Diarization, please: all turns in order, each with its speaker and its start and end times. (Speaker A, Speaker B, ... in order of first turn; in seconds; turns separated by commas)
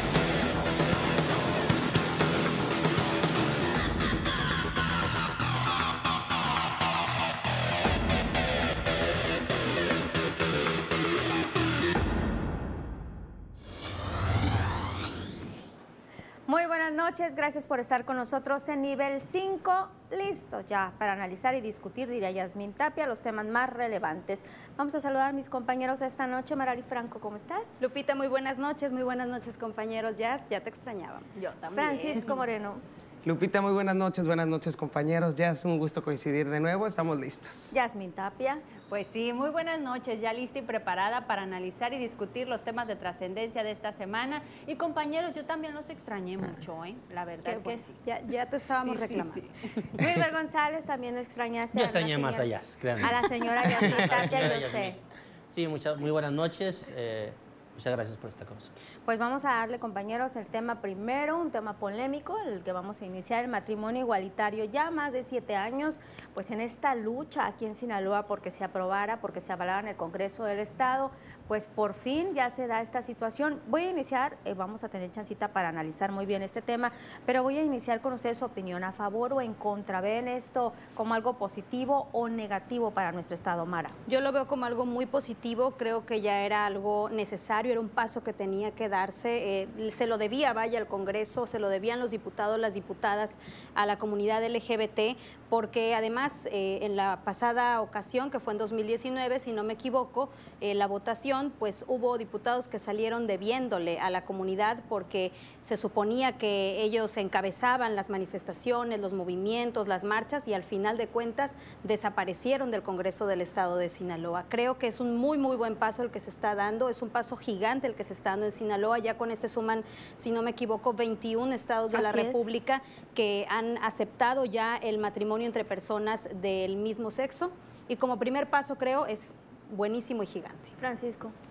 Speaker A: 0.2-0.8, Speaker A: 16.5-27.9, Speaker B: 27.8-32.4, Speaker A: 31.7-32.8, Speaker C: 33.2-37.7, Speaker A: 37.7-38.6, Speaker D: 38.9-48.0, Speaker B: 47.4-49.4, Speaker D: 48.8-50.0, Speaker A: 49.9-55.0, Speaker E: 51.7-55.0, Speaker E: 55.5-58.7, Speaker A: 59.0-84.0, Speaker B: 84.1-130.8, Speaker A: 121.9-122.5, Speaker A: 130.8-131.3